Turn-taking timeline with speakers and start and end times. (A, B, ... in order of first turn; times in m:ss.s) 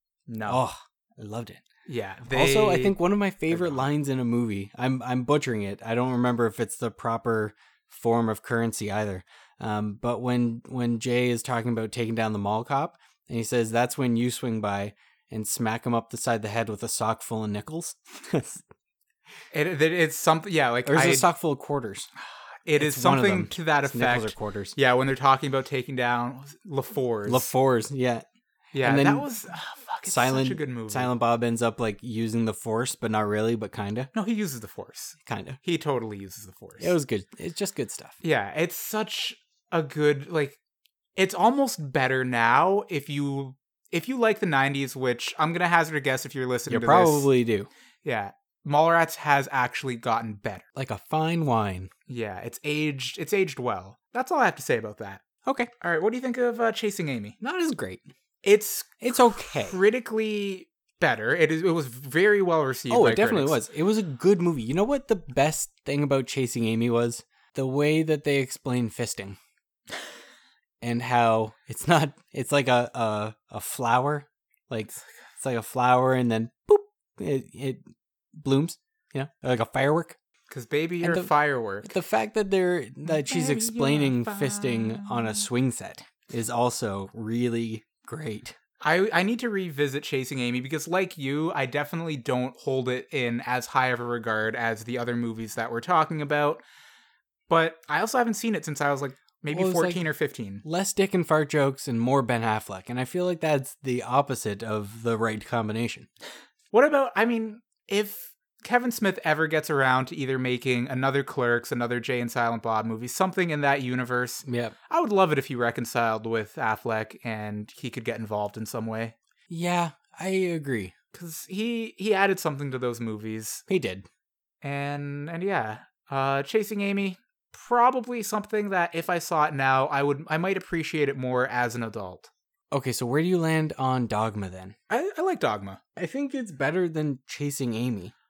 0:00.3-0:00.6 A
0:00.5-0:01.6 B
0:01.9-0:03.0 A
0:02.3-0:18.6 B
0:03.5-0:03.9 A
0:19.5-0:21.3 A
0:20.8-0:22.1 B
0:22.7-0:27.5 A
0:22.8-0:24.8 B
0:27.3-0:28.2 B
0:28.7-0:31.1 A
0:28.8-0:29.3 B
0:30.0-0:34.1 B
0:34.1-0:36.9 A
0:35.2-0:35.6 B
0:36.8-0:38.2 B
0:38.2-0:40.6 A
0:41.2-0:47.3 A
0:46.7-0:47.7 B
0:48.0-0:50.6 A
0:50.8-0:51.9 B
0:52.1-0:55.2 A
0:55.5-0:55.7 B
0:55.8-0:57.4 A
0:57.4-0:58.1 B
0:58.4-1:03.6 A
0:59.0-0:59.8 B
1:02.9-1:09.4 B
1:10.8-1:17.8 B
1:18.4-1:20.2 B
1:20.5-1:21.9 A
1:21.0-1:28.6 B
1:23.0-1:25.5 A
1:28.8-1:36.6 A
1:37.5-1:40.6 A
1:39.5-1:40.1 B
1:40.6-1:46.1 B
1:46.7-1:59.1 A
1:54.4-1:54.8 B
1:59.5-2:00.9 B
2:01.1-2:03.6 A
2:03.7-2:04.1 B
2:04.6-2:12.3 A
2:12.7-2:14.8 B
2:14.9-2:15.8 A
2:16.0-2:18.1 B